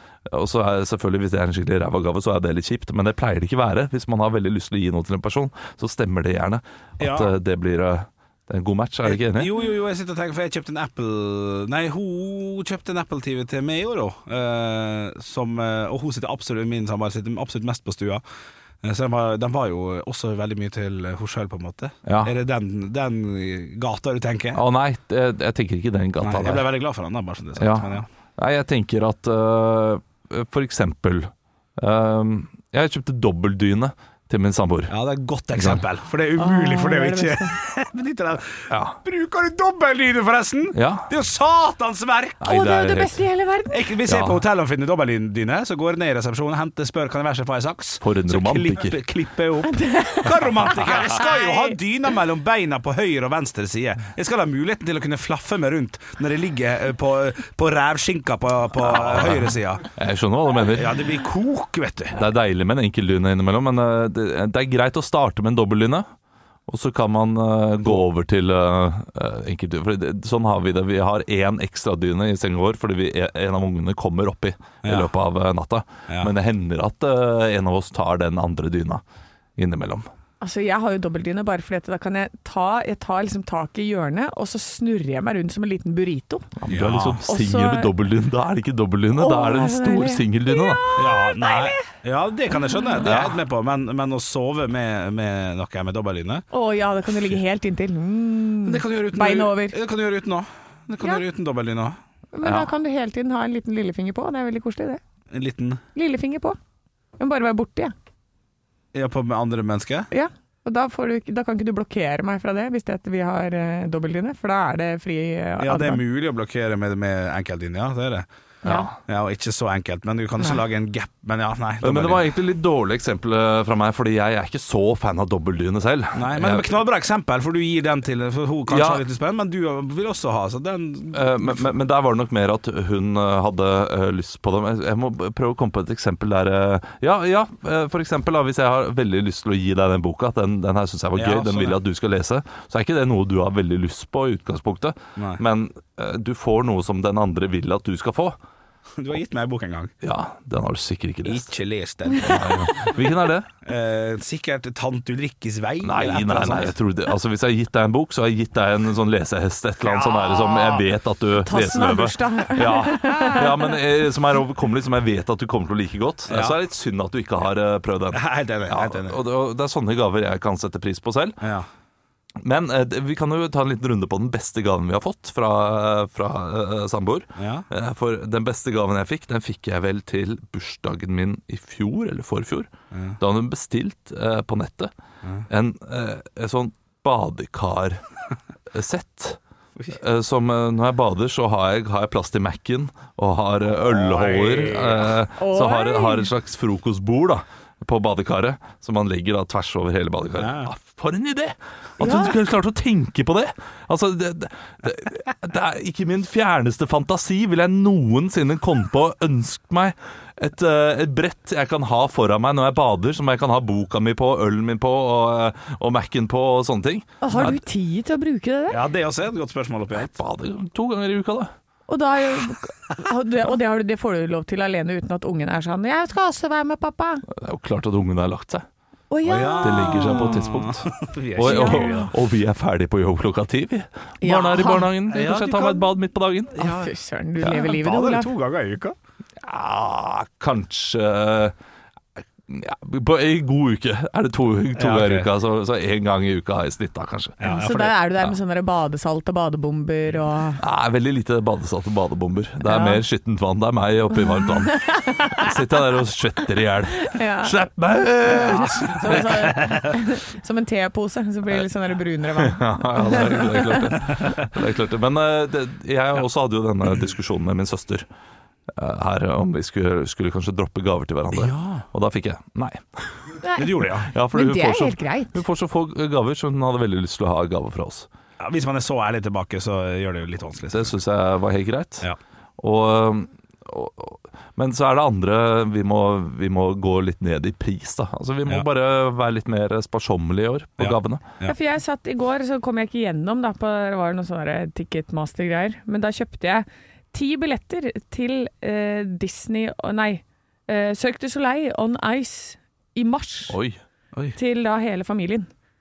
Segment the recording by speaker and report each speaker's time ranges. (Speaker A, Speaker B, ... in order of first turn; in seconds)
Speaker A: 0.3-9.5, 22.0-22.3, 24.5-26.7, 27.6-34.9, 35.5-35.8, 38.7-39.0, 40.7-41.1, 42.4-43.2, 44.0-44.4, 48.0-49.0, 58.8-61.0, 62.1-66.1, 66.7-79.0, 79.5-80.1, 86.6-90.8, 93.0-93.4, 102.4-102.7, 118.7-118.9, 121.8-126.7, 128.7-129.0, 131.1-148.3, 150.0-151.5, 152.2-153.5, 155.8-171.4, 172.4-184.9, 185.5-188.0, 188.7-189.4, 189.9-217.6, 220.0-221.5, 227.3-228.7, 229.6-236.7, 239.4-241.5, 242.5-247.4, 250.6-259.5, 262.3-268.1, 268.7-273.4, 274.0-278.1, 280.7-291.2, 303.5-303.8
Speaker B: 7.0-7.3, 9.1-18.2, 18.8-24.6, 26.2-28.1, 34.9-42.4, 43.7-59.8, 60.7-62.2, 74.8-75.1, 76.1-76.3, 86.7-87.2, 91.0-96.4, 98.6-102.0, 105.3-105.8, 108.9-110.1, 115.6-118.3, 119.0-122.2, 126.1-131.8, 141.1-141.8, 145.2-145.4, 149.0-149.9, 151.2-152.9, 153.6-156.8, 159.8-160.8, 166.3-166.6, 168.1-169.2, 171.4-171.7, 177.4-177.7, 182.9-183.2, 193.8-195.2, 200.4-200.7, 218.7-220.1, 229.2-232.1, 235.1-235.9, 236.5-238.9, 244.8-245.3, 247.4-247.9, 259.1-259.7, 271.3-271.8, 273.6-274.1, 278.4-280.9, 290.8-291.6
Speaker C: 36.4-37.5, 42.4-43.9, 49.6-51.8, 80.4-86.5, 87.3-87.9, 89.2-91.9, 92.7-93.0, 96.5-99.8, 102.3-105.0, 105.9-106.6, 107.2-107.9, 110.1-116.0, 118.6-118.9, 161.4-163.7, 195.4-196.3, 202.0-202.3, 217.2-218.8, 221.9-227.2, 229.1-230.4, 231.4-232.1, 234.2-234.9, 236.6-238.3, 247.4-250.6, 252.7-253.0, 254.2-255.5, 257.0-257.6, 258.3-263.9, 273.4-275.4, 291.4-303.6, 304.4-305.5